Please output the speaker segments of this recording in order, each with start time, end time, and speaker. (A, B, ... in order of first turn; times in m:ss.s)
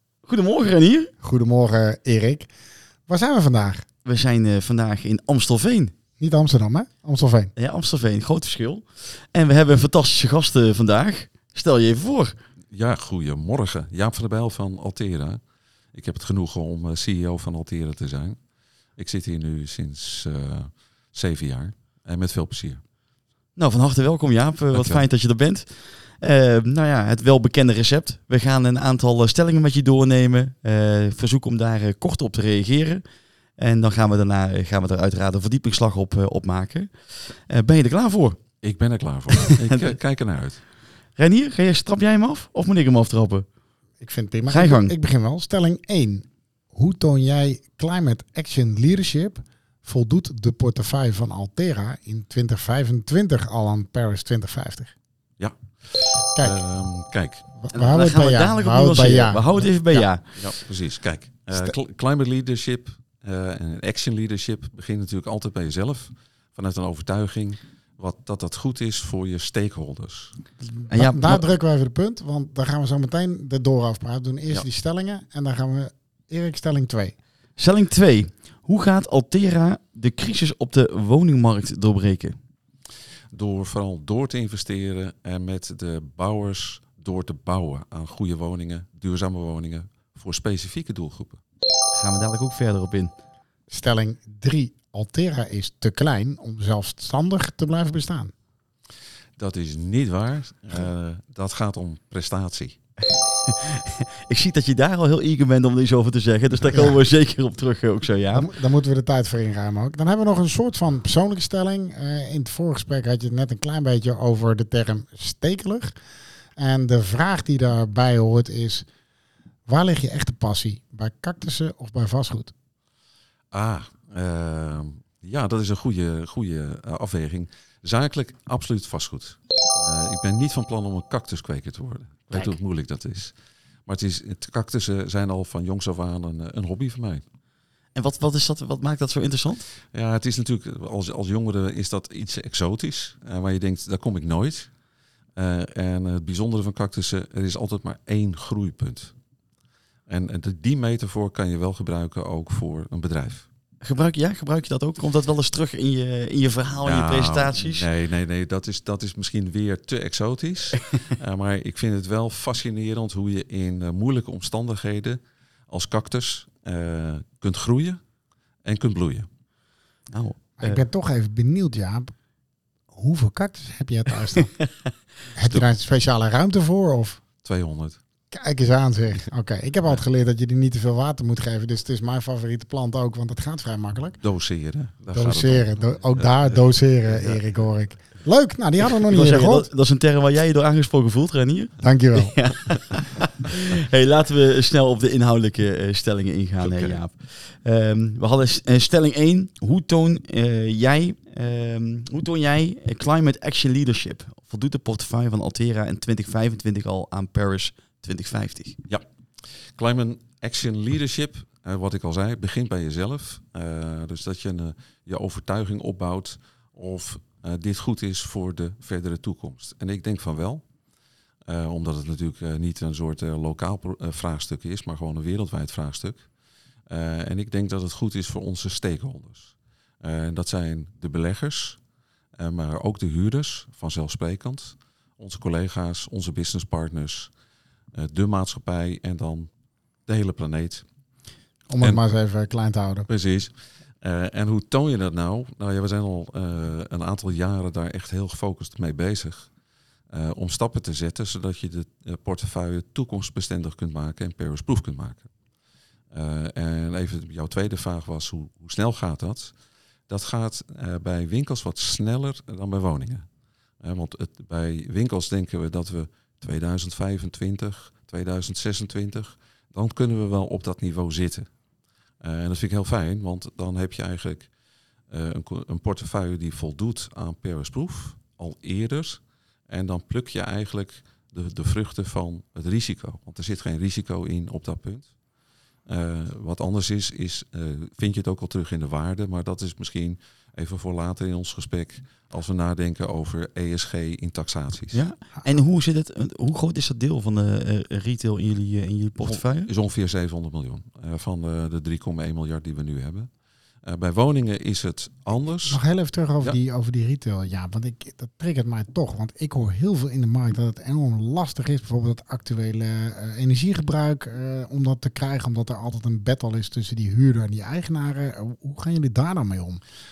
0:00.3-0:01.1 A
0:01.2-0:02.5 B
0:03.1-0:03.8 B
0:04.0-0:05.9 A
0:06.2-0:07.5 B
0:07.6-0:12.4 A
0:12.7-0:15.4 C
0:15.9-0:18.4 C
0:19.0-0:22.8 C
0:23.6-0:33.0 A
0:24.7-0:25.0 C
0:33.6-0:38.4 A
0:38.6-0:40.6 C
0:39.4-0:40.0 A
0:41.2-0:43.4 A
0:44.0-0:54.9 B
0:44.5-0:44.9 A
0:55.4-0:57.5 C
0:56.4-0:56.6 B
0:57.6-1:00.0 B
0:57.7-1:00.4 A
1:00.4-1:10.3 C
1:10.6-1:17.2 B
1:10.9-1:11.5 A
1:17.6-1:22.4 A
1:23.3-1:31.4 C
1:31.9-1:33.1 A
1:33.7-1:38.3 B
1:39.4-1:42.8 C
1:43.1-1:48.5 A
1:48.3-1:56.0 B
1:56.6-1:58.9 B
1:59.7-2:02.5 B
2:03.5-2:13.3 C
2:13.9-2:17.2 C
2:17.9-2:19.6 A
2:19.9-2:24.7 C
2:25.4-2:29.1 C
2:30.1-2:33.5 C
2:33.8-2:37.9 A
2:36.8-2:48.0 C
2:48.6-2:49.3 C
2:50.1-2:50.8 A
2:50.6-2:52.1 B
2:52.9-2:54.6 B
2:55.3-2:57.2 B
2:57.4-2:58.0 C
2:58.3-3:04.2 B
3:04.2-3:06.5 C
3:05.1-3:09.7 B
3:08.9-3:28.8 A
3:11.8-3:12.5 B
3:16.6-3:17.0 C
3:29.8-3:40.6 C
3:41.5-3:46.2 C
3:46.9-3:51.8 C
3:52.4-3:57.3 C
3:57.9-3:59.5 C
4:00.1-4:00.8 C
4:01.7-4:03.1 B
4:03.1-4:09.5 C
4:10.1-4:15.3 C
4:16.1-4:19.5 C
4:20.1-4:23.2 C
4:23.8-4:31.5 C
4:32.2-4:34.5 C
4:35.1-4:45.1 C
4:45.9-4:55.0 C
4:54.9-4:59.7 A
4:59.2-5:03.3 C
5:03.8-5:05.8 C
5:05.7-5:19.8 B